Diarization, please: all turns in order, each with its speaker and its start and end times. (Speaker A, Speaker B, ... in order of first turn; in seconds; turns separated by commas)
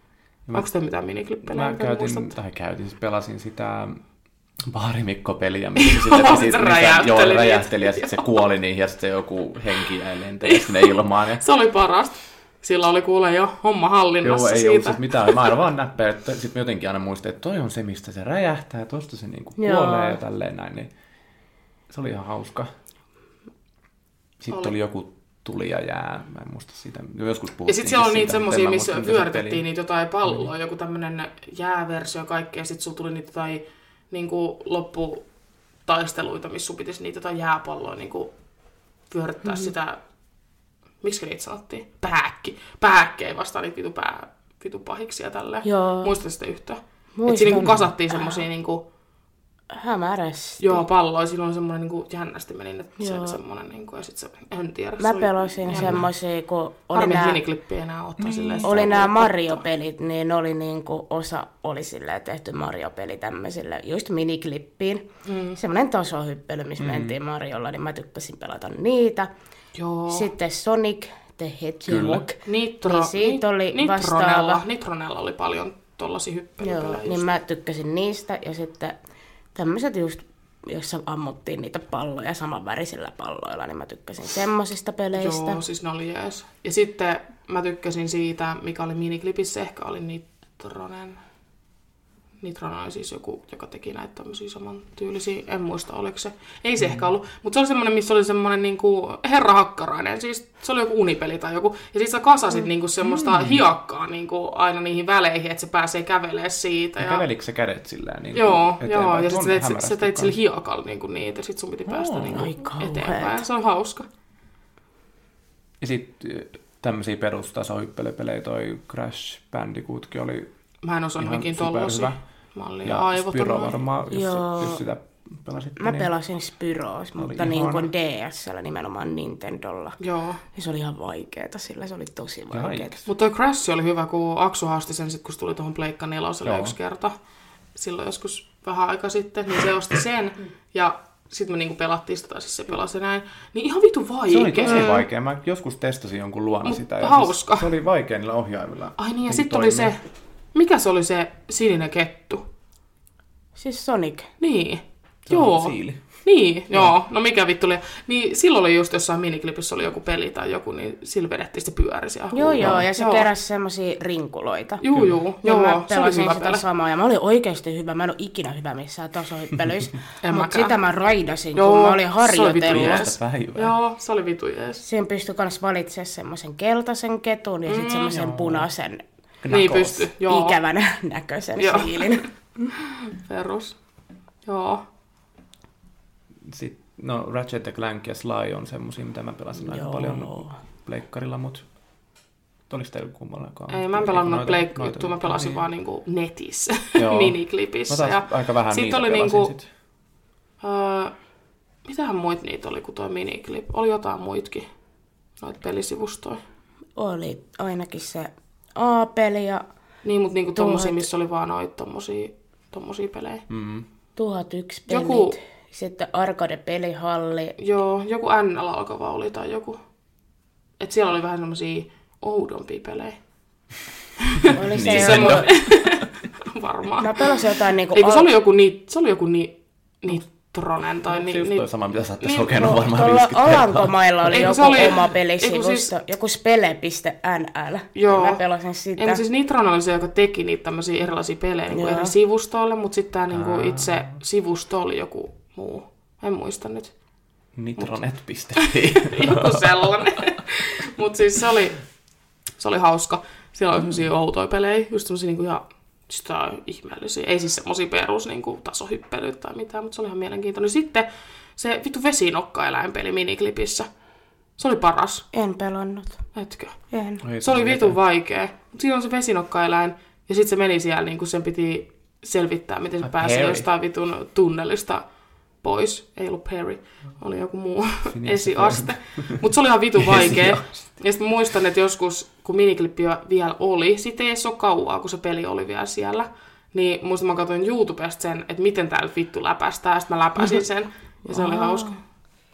Speaker A: 0.5-2.4, Speaker B: 1.4-4.0, Speaker B: 4.7-11.4, Speaker A: 5.8-8.4, Speaker A: 10.4-15.4, Speaker B: 14.2-20.9, Speaker C: 19.6-20.2, Speaker B: 21.9-22.7, Speaker B: 24.4-29.6, Speaker A: 27.7-35.2, Speaker A: 35.9-38.3, Speaker A: 39.1-40.0, Speaker C: 39.5-39.7, Speaker A: 41.0-48.8, Speaker C: 45.6-46.1, Speaker C: 47.2-48.4, Speaker B: 47.5-47.9, Speaker C: 49.7-50.8, Speaker A: 50.6-56.0, Speaker C: 53.0-53.4, Speaker C: 55.0-57.4, Speaker B: 55.7-56.0, Speaker A: 56.9-59.6, Speaker B: 58.2-59.0, Speaker C: 58.6-69.3, Speaker A: 65.3-65.6, Speaker B: 66.8-67.2, Speaker A: 69.8-70.3, Speaker C: 70.1-74.6, Speaker B: 71.9-72.3, Speaker A: 72.5-77.3, Speaker C: 76.6-79.0, Speaker C: 79.5-85.6, Speaker A: 85.2-91.2, Speaker A: 92.4-107.2, Speaker B: 103.0-103.7, Speaker B: 107.0-110.4, Speaker A: 108.3-114.1, Speaker B: 111.9-112.5, Speaker C: 112.3-113.5, Speaker B: 115.8-120.5, Speaker A: 120.8-123.8, Speaker B: 121.2-122.2, Speaker B: 122.8-126.1, Speaker C: 124.1-124.8, Speaker C: 125.8-130.0, Speaker B: 127.2-127.9, Speaker A: 130.0-130.4, Speaker C: 130.5-133.0, Speaker B: 132.5-133.1, Speaker A: 133.1-137.1, Speaker B: 136.4-136.8, Speaker A: 137.8-144.9, Speaker B: 144.3-149.9, Speaker C: 144.7-145.1, Speaker A: 146.7-147.7, Speaker A: 149.0-150.0, Speaker A: 150.6-152.4, Speaker C: 153.6-154.3, Speaker A: 154.4-163.3, Speaker B: 155.3-156.0, Speaker C: 162.3-164.8, Speaker A: 164.8-166.6, Speaker B: 164.9-165.2, Speaker C: 165.4-173.1, Speaker A: 170.2-170.8, Speaker A: 171.6-174.8, Speaker B: 172.6-173.8, Speaker C: 174.8-179.0, Speaker A: 177.7-178.1, Speaker B: 178.1-178.7, Speaker B: 179.4-180.1, Speaker A: 179.5-180.6, Speaker C: 180.3-182.7, Speaker A: 181.6-182.3, Speaker A: 183.2-183.8, Speaker A: 184.5-184.8, Speaker B: 186.4-191.6, Speaker C: 189.6-190.5, Speaker B: 192.7-195.7, Speaker A: 193.7-199.5, Speaker B: 197.0-199.7, Speaker A: 200.6-201.1, Speaker A: 201.8-204.7, Speaker A: 205.4-206.4, Speaker C: 207.0-209.6, Speaker A: 210.0-213.4, Speaker C: 210.6-211.1, Speaker B: 213.5-213.8, Speaker C: 214.2-217.6, Speaker A: 214.9-215.4, Speaker A: 217.6-219.8, Speaker A: 220.8-223.2, Speaker A: 224.2-227.3, Speaker B: 224.5-226.0, Speaker C: 224.5-225.5, Speaker C: 227.0-228.3, Speaker A: 227.9-231.7, Speaker B: 231.1-234.5, Speaker A: 232.2-232.7, Speaker C: 232.5-239.2, Speaker A: 234.3-235.9, Speaker A: 237.9-238.4, Speaker A: 239.0-246.9, Speaker C: 241.7-242.1, Speaker B: 243.3-244.2, Speaker B: 247.6-249.9, Speaker A: 248.6-251.8, Speaker A: 252.6-263.9, Speaker A: 264.6-265.3, Speaker C: 265.3-266.2, Speaker A: 266.4-266.8, Speaker C: 266.9-267.2, Speaker B: 267.2-268.0, Speaker A: 267.4-275.0, Speaker B: 273.0-273.7, Speaker A: 275.6-291.9, Speaker B: 278.1-279.4, Speaker B: 280.0-280.6, Speaker C: 291.3-292.0